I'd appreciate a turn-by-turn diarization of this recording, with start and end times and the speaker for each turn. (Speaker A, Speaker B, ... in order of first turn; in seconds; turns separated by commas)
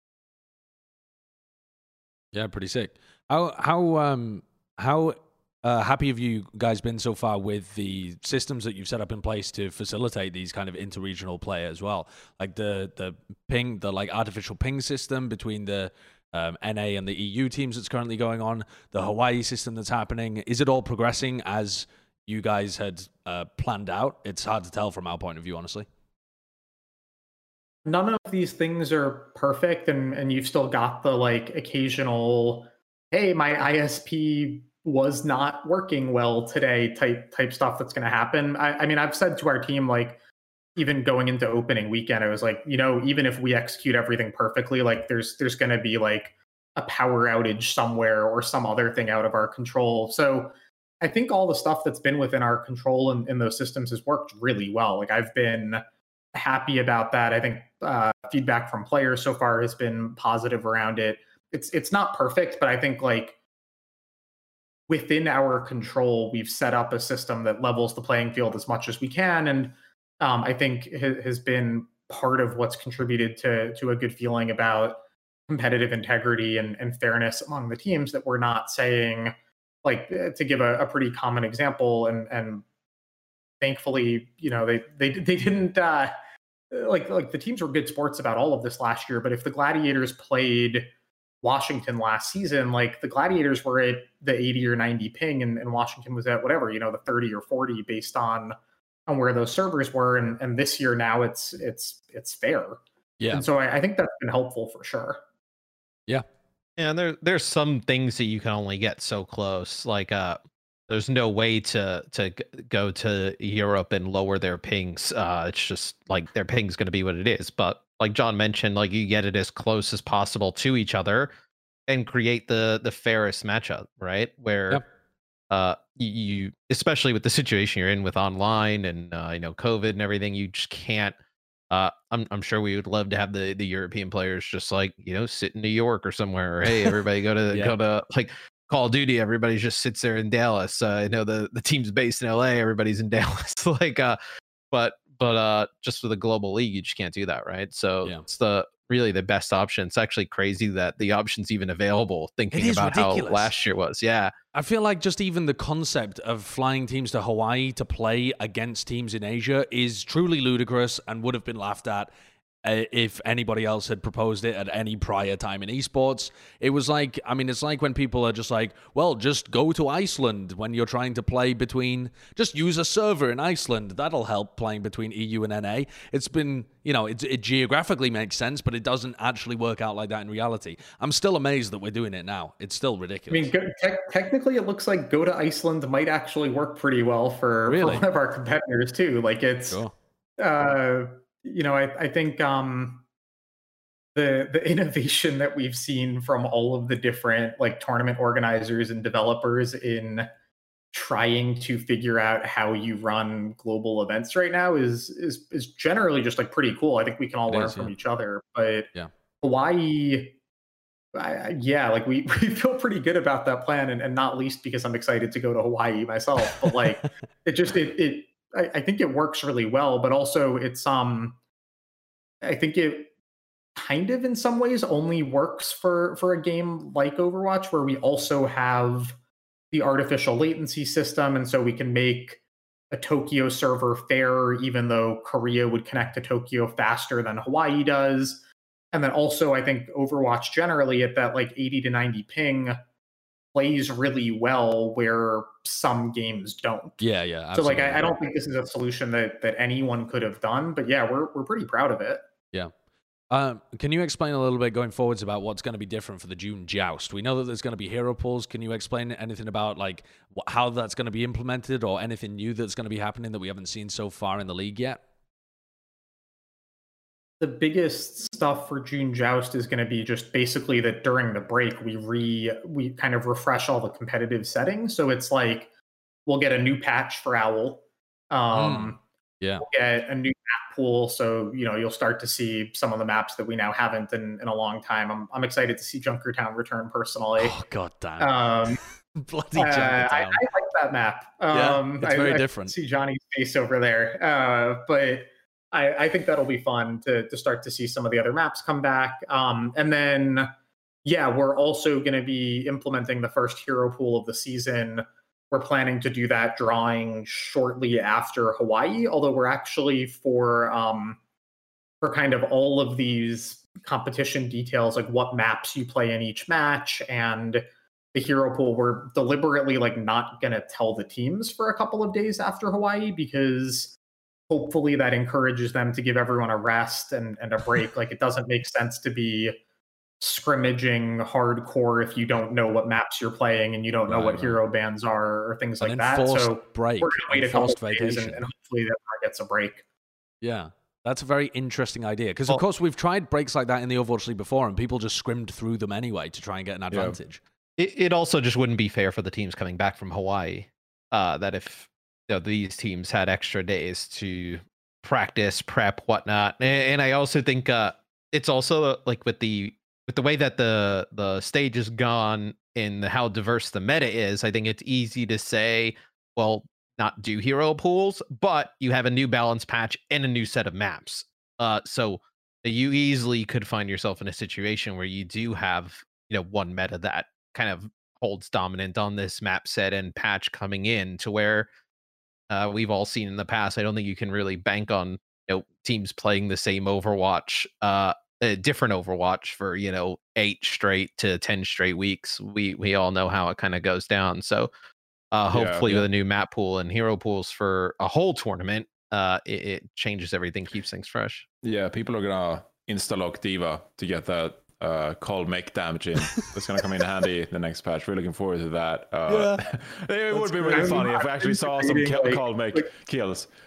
Speaker A: 2.3-25.9, Speaker B: 27.9-40.2, Speaker B: 40.8-55.8, Speaker B: 56.3-63.4, Speaker B: 64.9-82.7, Speaker B: 83.6-86.1, Speaker B: 86.7-90.9, Speaker B: 91.4-98.6, Speaker B: 99.1-102.8, Speaker A: 103.2-103.5, Speaker B: 103.3-105.2, Speaker C: 106.8-121.3, Speaker C: 121.9-124.8, Speaker C: 125.5-131.2, Speaker C: 131.7-144.2, Speaker A: 137.5-137.8, Speaker C: 144.7-154.3, Speaker A: 152.5-153.5, Speaker A: 154.5-162.1, Speaker A: 162.6-183.5, Speaker B: 183.3-189.8, Speaker A: 187.7-188.0, Speaker B: 190.4-193.1, Speaker B: 194.2-200.3, Speaker B: 200.9-210.4, Speaker A: 207.5-207.9, Speaker B: 211.1-221.4, Speaker B: 222.4-223.1, Speaker B: 223.8-229.2, Speaker B: 229.7-238.4, Speaker B: 238.9-242.8, Speaker B: 243.5-247.0, Speaker A: 247.0-248.2, Speaker B: 247.5-252.2, Speaker A: 253.3-265.0, Speaker B: 267.4-275.7, Speaker B: 276.3-279.0, Speaker A: 278.5-279.6, Speaker B: 279.6-287.6, Speaker A: 287.4-290.5, Speaker B: 288.2-288.8, Speaker B: 289.6-300.5, Speaker A: 291.5-292.7, Speaker B: 301.1-311.2, Speaker B: 312.0-323.9, Speaker B: 324.5-329.6, Speaker B: 330.2-339.8, Speaker A: 334.1-334.6, Speaker A: 335.8-338.4, Speaker A: 340.4-347.4, Speaker D: 346.9-347.2, Speaker C: 347.8-381.7, Speaker C: 382.5-394.7, Speaker C: 395.3-401.4, Speaker D: 395.5-396.1, Speaker D: 401.6-413.5, Speaker A: 409.3-409.6, Speaker B: 410.4-412.9